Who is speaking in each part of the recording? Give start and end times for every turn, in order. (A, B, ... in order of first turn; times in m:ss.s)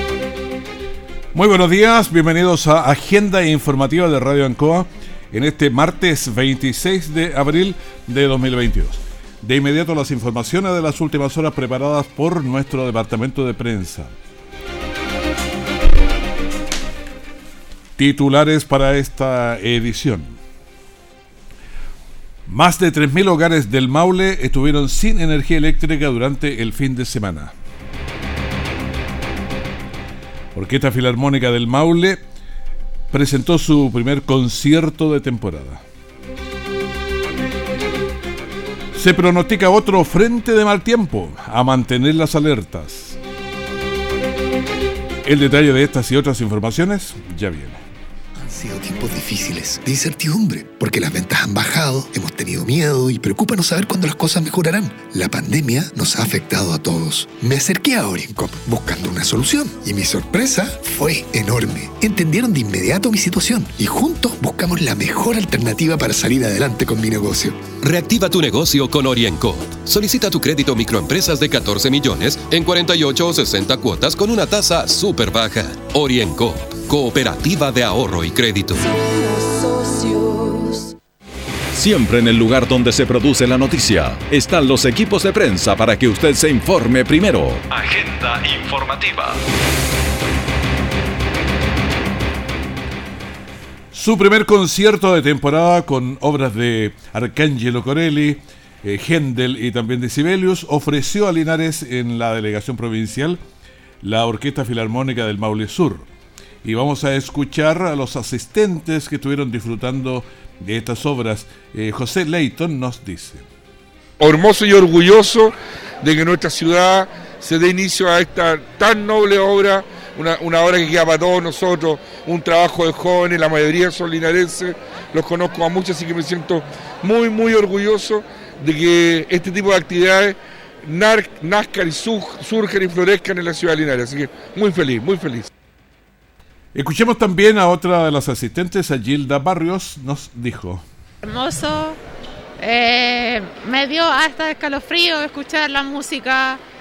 0:01.3-0:14.1 A
0:18.0-0:20.4 A
0:22.5-0:27.5 A
0:30.6-0:32.2 A
0:33.1-0:35.8 A
0:38.9-0:43.2 A
0:45.2-0:47.8 A
0:48.4-1:07.7 B
1:07.8-1:18.8 C
1:21.7-1:29.4 D
1:33.9-1:43.4 A
1:44.0-1:46.1 A
1:46.6-1:53.4 A
1:54.2-2:15.5 E
2:16.7-2:20.8 A
2:21.2-2:22.0 F
2:22.6-2:26.6 F